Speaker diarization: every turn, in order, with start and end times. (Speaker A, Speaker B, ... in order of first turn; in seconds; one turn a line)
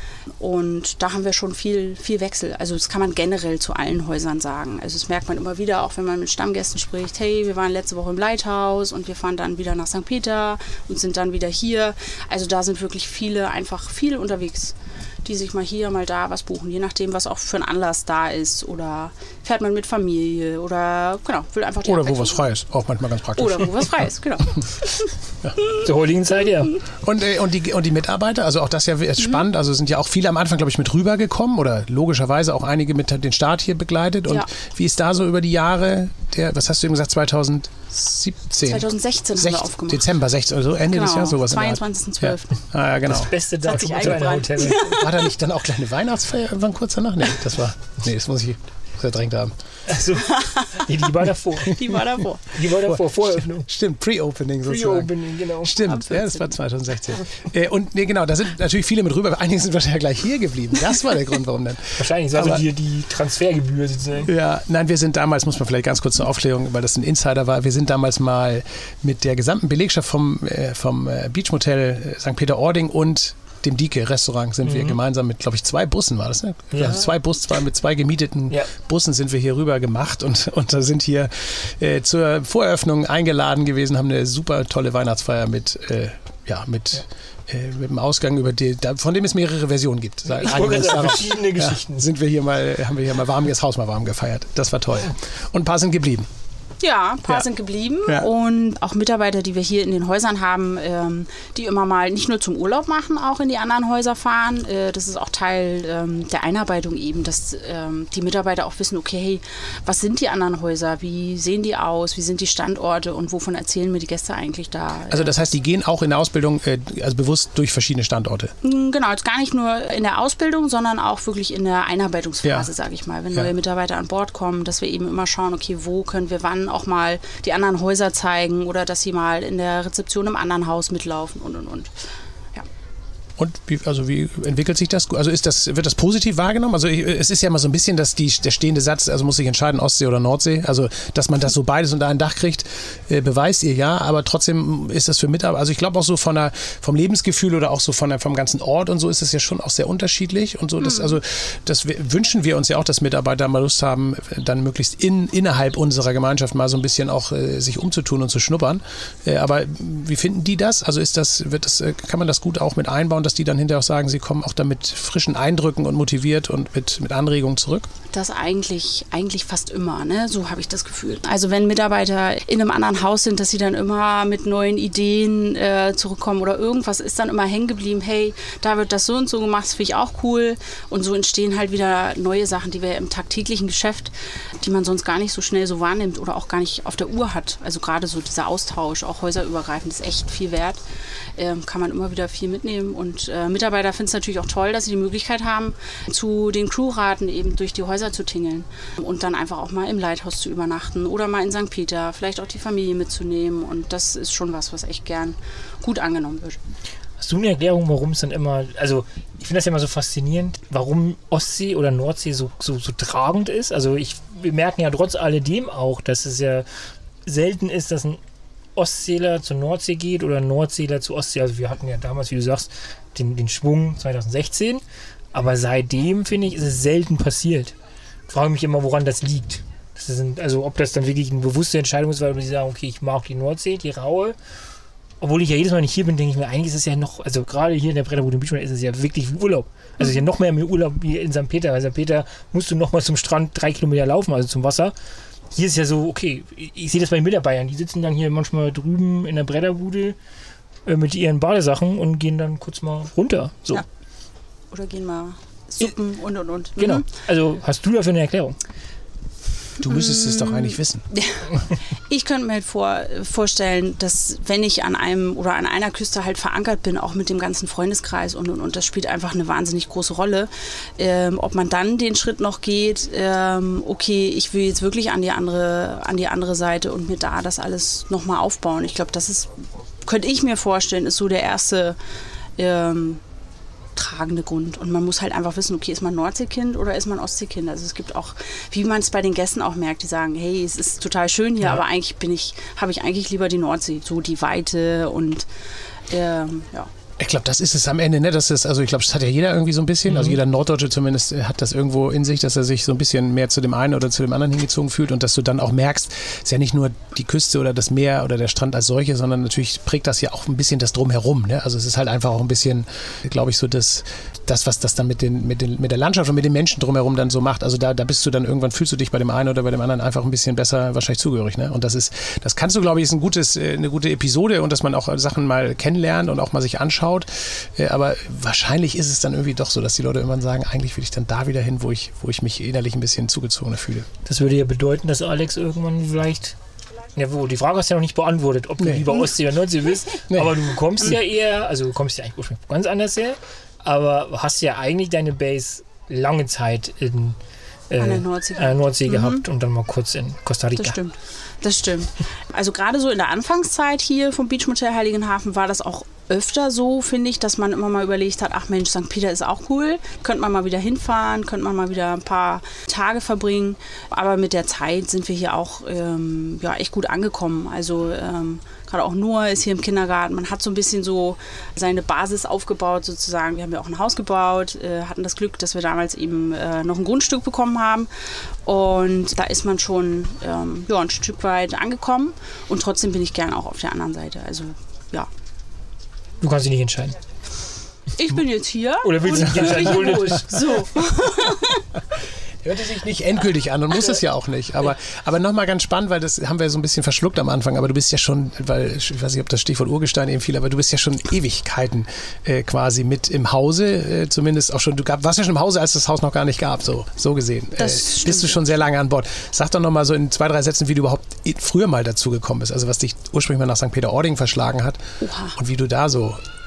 Speaker A: 0.4-22.5
Speaker B: 21.8-23.9
Speaker A: 23.4-25.1
Speaker C: 25.8-26.7
Speaker B: 27.0-43.3
Speaker A: 38.6-40.1
Speaker A: 40.9-42.6
Speaker C: 43.1-45.0
Speaker A: 43.6-45.1
Speaker B: 44.7-49.5
Speaker C: 49.9-51.9
Speaker A: 50.3-50.8
Speaker A: 51.6-52.5
Speaker C: 52.5-53.7
Speaker B: 52.7-62.6
Speaker C: 54.6-56.0
Speaker A: 56.1-56.4
Speaker C: 62.0-64.3
Speaker B: 64.2-96.3
Speaker C: 74.6-75.0
Speaker C: 76.7-77.1
Speaker C: 90.3-92.0
Speaker A: 96.8-115.3
Speaker B: 115.1-118.5
Speaker A: 118.6-131.9
Speaker B: 122.4-122.7
Speaker B: 133.4-167.9
Speaker A: 168.1-190.8
Speaker A: 191.4-206.6
Speaker C: 207.2-216.7
Speaker C: 217.2-218.2
Speaker C: 218.8-224.8
Speaker C: 225.3-227.7
Speaker C: 228.3-234.3
Speaker C: 235.2-244.9
Speaker C: 245.5-250.2
Speaker C: 250.8-253.8
Speaker A: 254.7-257.0
Speaker C: 256.8-258.6
Speaker B: 259.8-261.0
Speaker A: 259.9-282.0
Speaker A: 282.6-283.2
Speaker A: 283.9-295.5
Speaker A: 296.1-296.9
Speaker B: 297.2-334.1
Speaker C: 300.1-300.4
Speaker C: 334.2-336.5
Speaker C: 337.1-347.4
Speaker B: 338.8-339.1
Speaker B: 340.3-340.6
Speaker C: 347.9-351.0
Speaker A: 348.0-349.4
Speaker A: 350.8-378.1
Speaker A: 378.6-385.3
Speaker C: 386.4-387.1
Speaker A: 388.2-391.8
Speaker C: 389.0-390.7
Speaker B: 392.6-415.0
Speaker A: 407.8-408.6
Speaker A: 415.2-415.6
Speaker B: 415.5-416.4